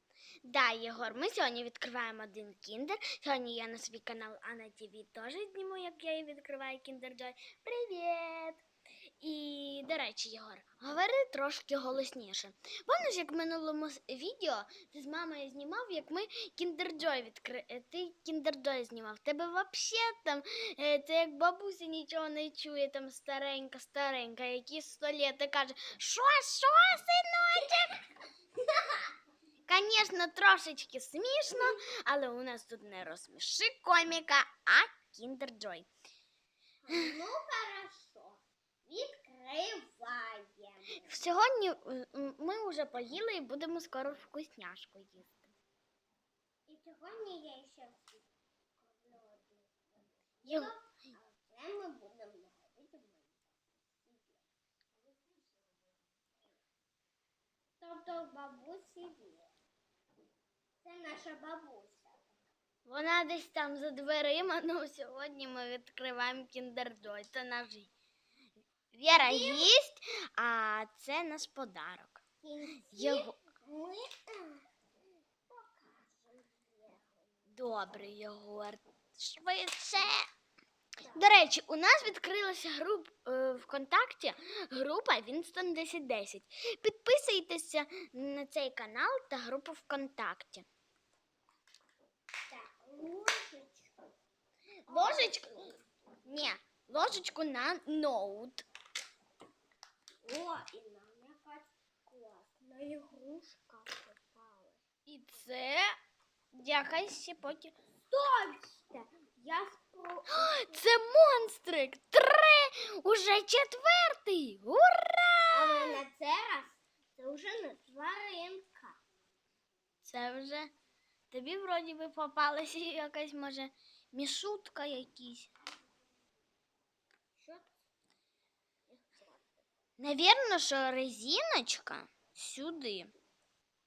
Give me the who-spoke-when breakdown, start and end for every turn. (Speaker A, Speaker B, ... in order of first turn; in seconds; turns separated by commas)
Speaker A: 0.4-8.6, Speaker A: 9.2-28.0, Speaker B: 28.8-29.0, Speaker A: 29.7-35.9, Speaker B: 36.8-41.1, Speaker A: 41.0-45.5, Speaker B: 46.7-54.5, Speaker A: 50.4-50.7, Speaker B: 57.8-59.5, Speaker B: 60.8-62.2, Speaker A: 62.9-67.9, Speaker A: 68.9-72.2, Speaker B: 69.1-69.7, Speaker B: 72.4-74.6, Speaker A: 72.9-73.3, Speaker B: 75.5-77.4, Speaker A: 77.5-80.3, Speaker A: 81.1-90.7, Speaker B: 92.5-94.0, Speaker A: 94.8-95.7, Speaker B: 94.9-95.8, Speaker A: 96.2-98.7, Speaker B: 100.2-104.8, Speaker A: 105.0-105.9, Speaker A: 106.5-107.7, Speaker B: 108.1-110.6, Speaker A: 110.3-116.0, Speaker B: 115.5-119.0, Speaker A: 120.0-120.7, Speaker A: 121.3-125.5, Speaker B: 127.3-127.7, Speaker B: 128.9-129.6, Speaker A: 130.0-133.1